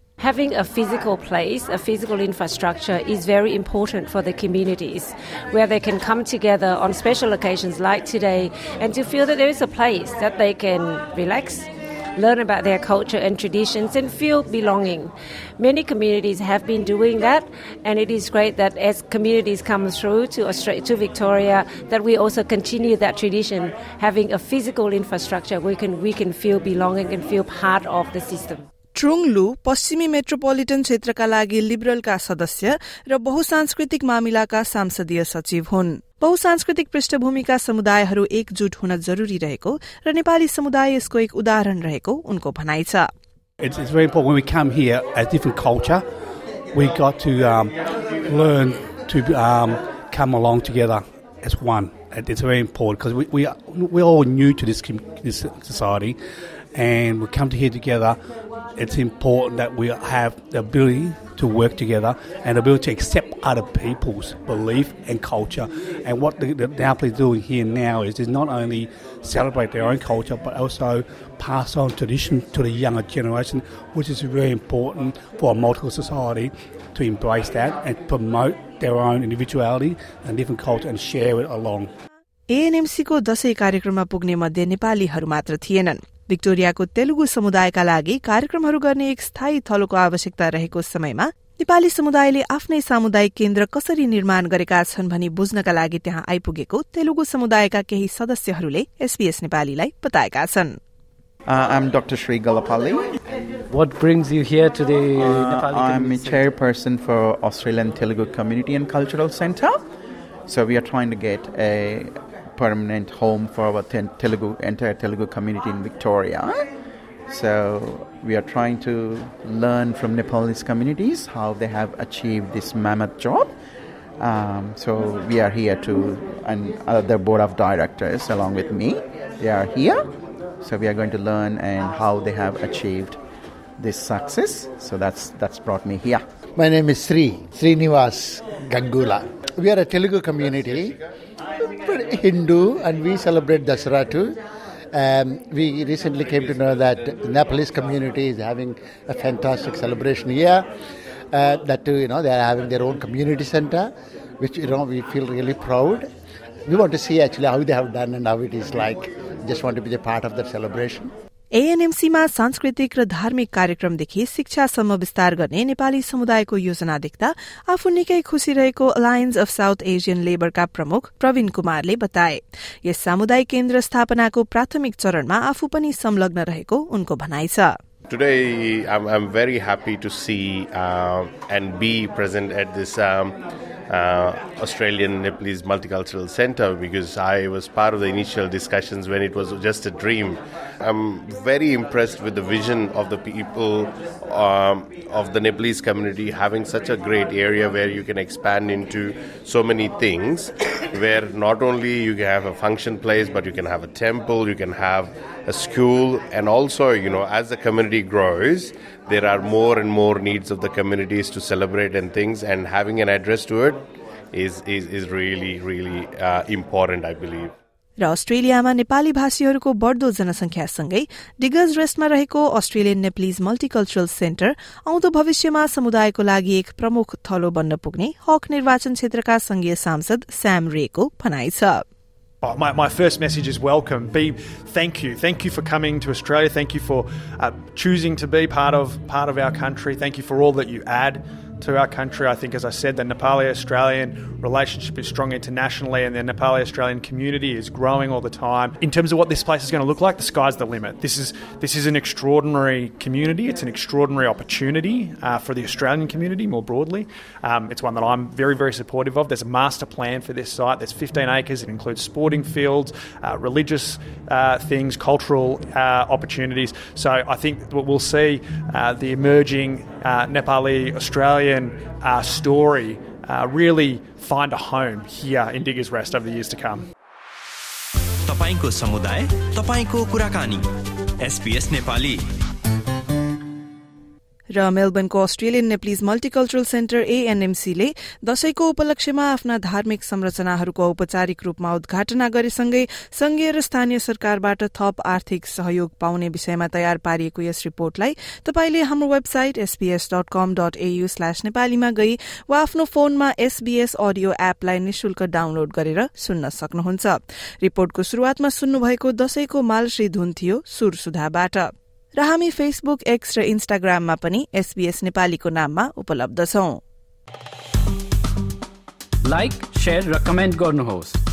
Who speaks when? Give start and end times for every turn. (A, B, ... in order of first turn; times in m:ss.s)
0:00.2-0:28.6 A
0:29.0-0:43.1 B
0:43.6-0:46.0 C
0:46.7-0:56.2 C
0:56.7-0:58.2 C
0:58.8-1:21.9 C
1:22.5-1:40.8 B
1:41.5-1:43.1 D
1:43.7-1:46.5 E
1:45.2-1:49.8 D
1:50.5-1:56.6 D
1:57.3-2:03.5 D
2:04.2-2:10.0 D
2:10.6-2:13.2 D
2:13.8-2:16.2 D
2:16.6-2:21.0 F
2:21.8-2:24.3 F
2:24.9-2:30.6 F
2:31.3-2:33.9 F
2:34.4-2:36.1 F
2:36.7-2:41.1 F
2:41.6-2:57.8 B
2:58.1-3:03.4 G
3:03.9-3:33.8 G
3:34.3-3:37.5 G
3:38.0-3:51.8 B
3:52.4-4:36.8 H
4:38.3-4:40.7 I
4:41.2-4:42.2 I
4:44.5-5:16.8 B
5:19.4-5:21.1 C